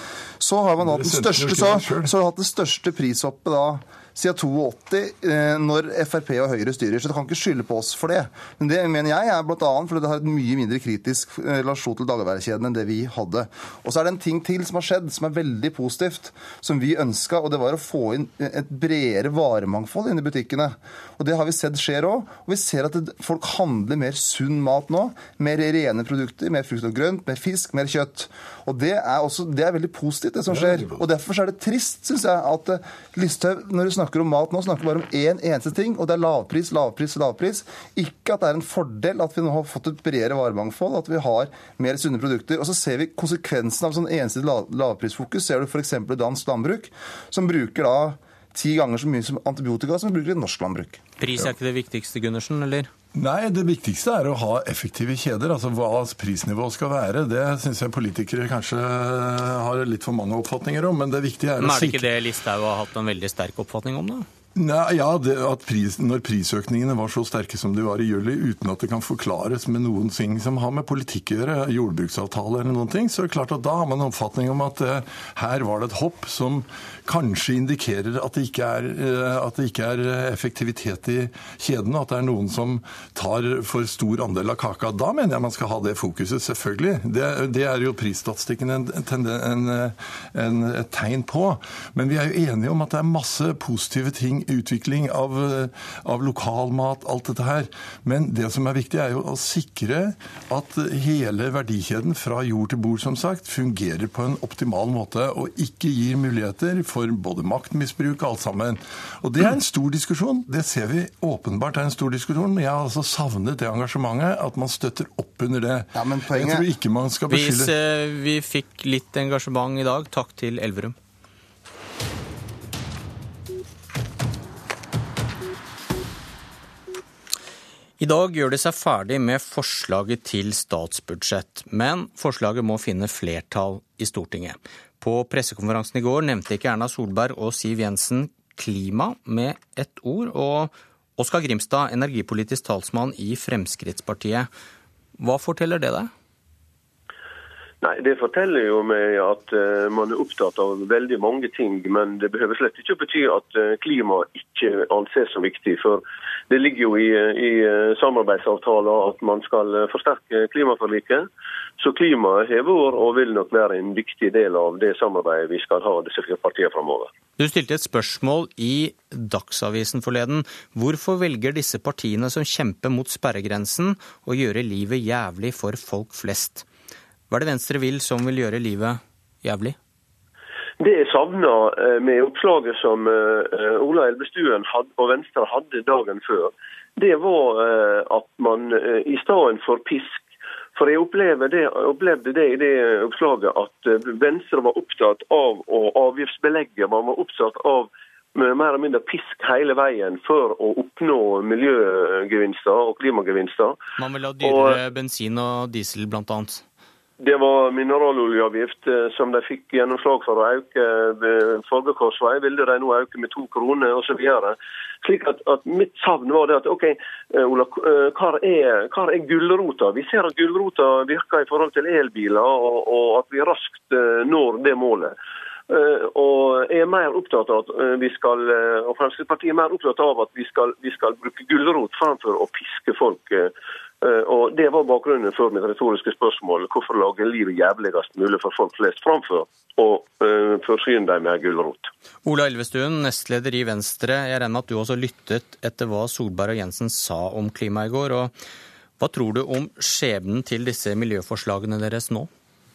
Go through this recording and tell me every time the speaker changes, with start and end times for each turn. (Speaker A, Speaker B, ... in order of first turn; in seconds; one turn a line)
Speaker A: 0.4-51.0
Speaker B: 0.8-2.1
Speaker B: 30.5-31.0
Speaker C: 51.2-52.9
Speaker B: 53.1-62.1
Speaker C: 61.6-64.2
Speaker B: 64.5-117.7
Speaker A: 115.9-116.7
Speaker C: 117.3-121.0
Speaker C: 128.0-144.5
Speaker C: 145.2-146.1
Speaker D: 147.8-161.3
Speaker D: 161.8-167.1
Speaker C: 167.4-176.7
Speaker C: 177.3-179.8
Speaker D: 180.8-203.8
Speaker C: 204.0-206.6
Speaker D: 204.4-204.8
Speaker D: 207.2-225.1
Speaker D: 225.7-241.9
Speaker C: 242.2-248.3
Speaker C: 249.0-252.3